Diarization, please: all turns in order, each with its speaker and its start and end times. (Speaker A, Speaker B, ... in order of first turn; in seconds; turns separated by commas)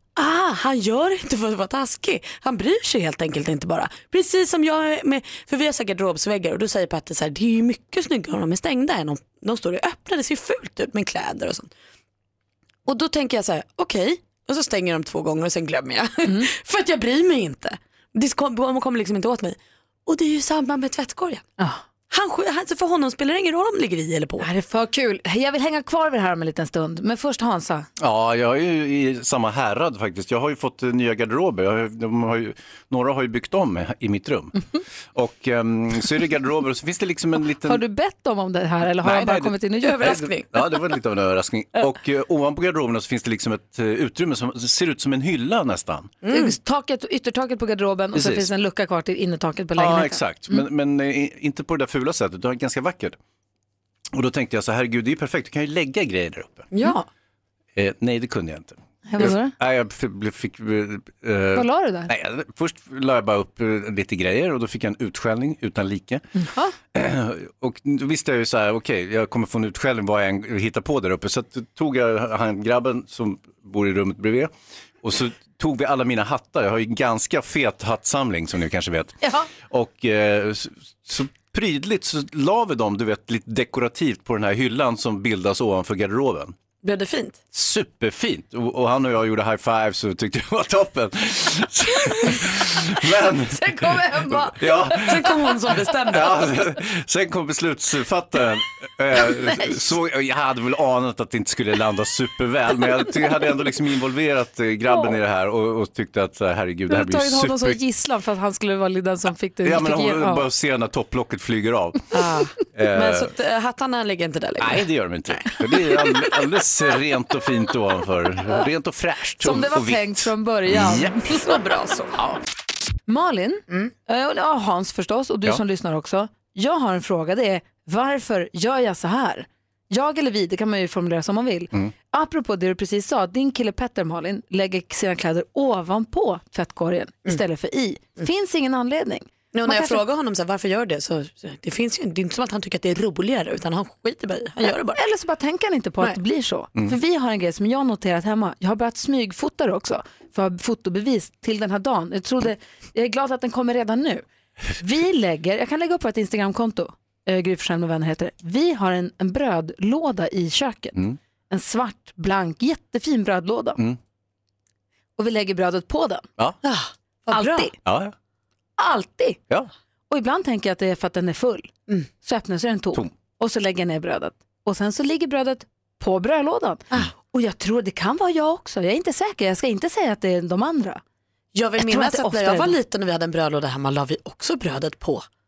Speaker A: 0.2-11.7, Speaker A: 12.9-21.4, Speaker B: 16.2-16.5, Speaker A: 22.1-24.5, Speaker B: 24.4-27.9, Speaker C: 28.0-34.6, Speaker C: 35.1-37.8, Speaker B: 37.6-40.3, Speaker C: 39.0-39.6, Speaker A: 39.8-40.7, Speaker C: 40.5-46.1, Speaker A: 46.2-46.6, Speaker B: 46.3-50.6, Speaker C: 48.1-48.5, Speaker C: 49.8-53.2, Speaker C: 54.1-56.7, Speaker A: 56.7-57.0, Speaker B: 56.7-57.0, Speaker C: 57.8-66.2, Speaker B: 59.1-59.5, Speaker B: 61.6-62.1, Speaker B: 66.4-66.8, Speaker C: 66.9-74.5, Speaker C: 75.0-86.5, Speaker B: 79.2-79.5, Speaker A: 86.8-87.4, Speaker C: 87.5-95.2, Speaker B: 93.5-95.1, Speaker A: 94.9-96.4, Speaker C: 96.1-107.8, Speaker B: 106.9-110.5, Speaker C: 109.6-112.0, Speaker A: 112.1-115.5, Speaker C: 112.7-113.3, Speaker C: 114.6-121.4, Speaker B: 119.4-121.4, Speaker A: 121.4-122.1, Speaker B: 123.1-140.0, Speaker A: 139.5-145.0, Speaker B: 144.9-154.2, Speaker B: 154.8-161.0, Speaker B: 161.5-163.8, Speaker B: 165.2-166.3, Speaker A: 166.6-167.7, Speaker B: 167.3-167.7, Speaker C: 167.8-168.1, Speaker B: 168.8-169.4, Speaker B: 170.1-181.0, Speaker A: 181.5-185.3, Speaker B: 181.8-182.8